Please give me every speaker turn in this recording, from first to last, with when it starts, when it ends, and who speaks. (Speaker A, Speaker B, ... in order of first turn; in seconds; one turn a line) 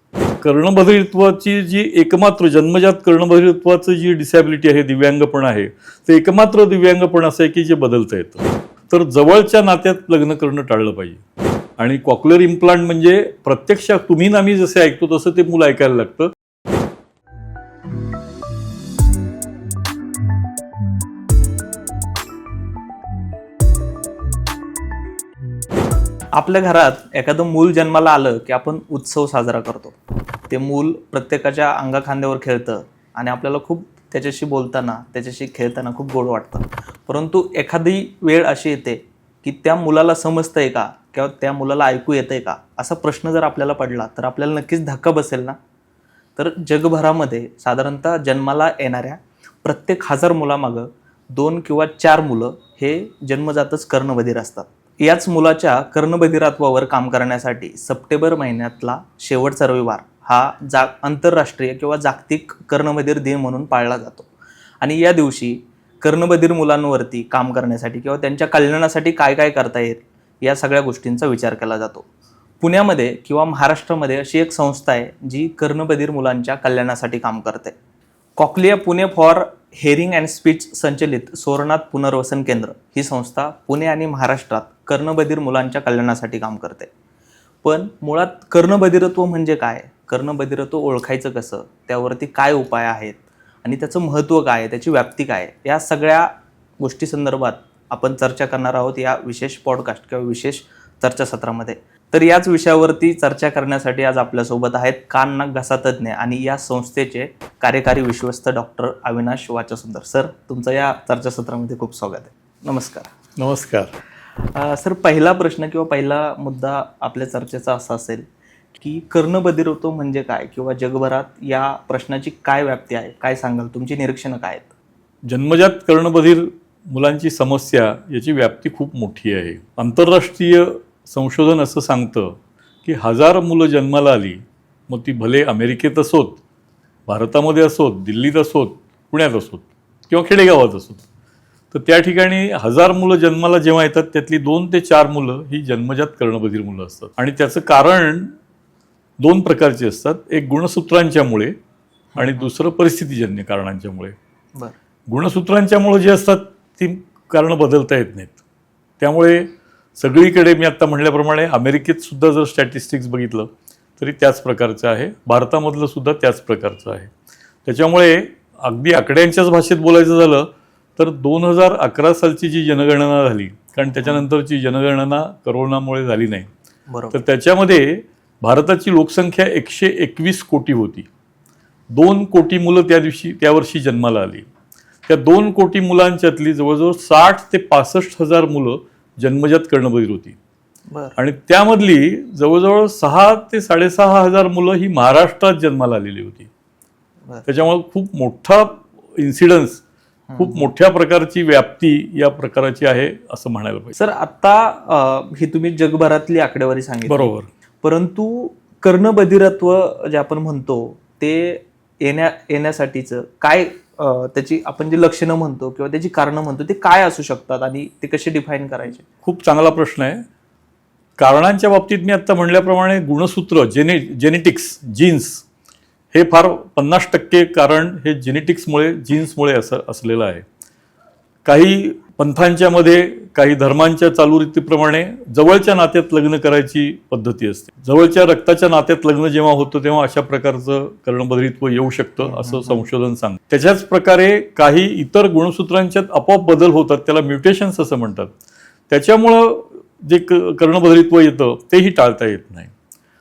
Speaker A: 0.4-11.2
Speaker A: 11.8-16.3
Speaker B: 26.3-30.0
Speaker B: 30.5-45.6
Speaker B: 46.4-64.3
Speaker B: 64.8-72.1
Speaker B: 72.6-77.8
Speaker B: 78.4-86.9
Speaker B: 87.6-113.1
Speaker A: 113.4-113.9
Speaker B: 114.3-124.7
Speaker A: 125.3-136.4
Speaker A: 137.1-141.0
Speaker A: 141.7-148.3
Speaker A: 149.2-151.5
Speaker B: 152.1-152.5
Speaker A: 152.2-154.1
Speaker A: 155.1-158.4
Speaker A: 159.0-167.1
Speaker A: 167.7-176.5
Speaker B: 173.8-174.2
Speaker B: 176.9-177.2
Speaker A: 177.1-181.1
Speaker A: 181.9-184.5
Speaker A: 185.1-190.4
Speaker B: 190.9-191.2
Speaker A: 191.2-196.5
Speaker A: 197.4-199.8
Speaker B: 200.3-200.7
Speaker A: 200.4-203.9
Speaker B: 203.9-207.3
Speaker A: 207.1-207.5
Speaker B: 207.8-219.0
Speaker A: 219.2-220.2
Speaker A: 221.2-225.4
Speaker A: 226.1-230.4
Speaker A: 231.4-248.3
Speaker B: 242.2-242.9
Speaker A: 248.9-252.7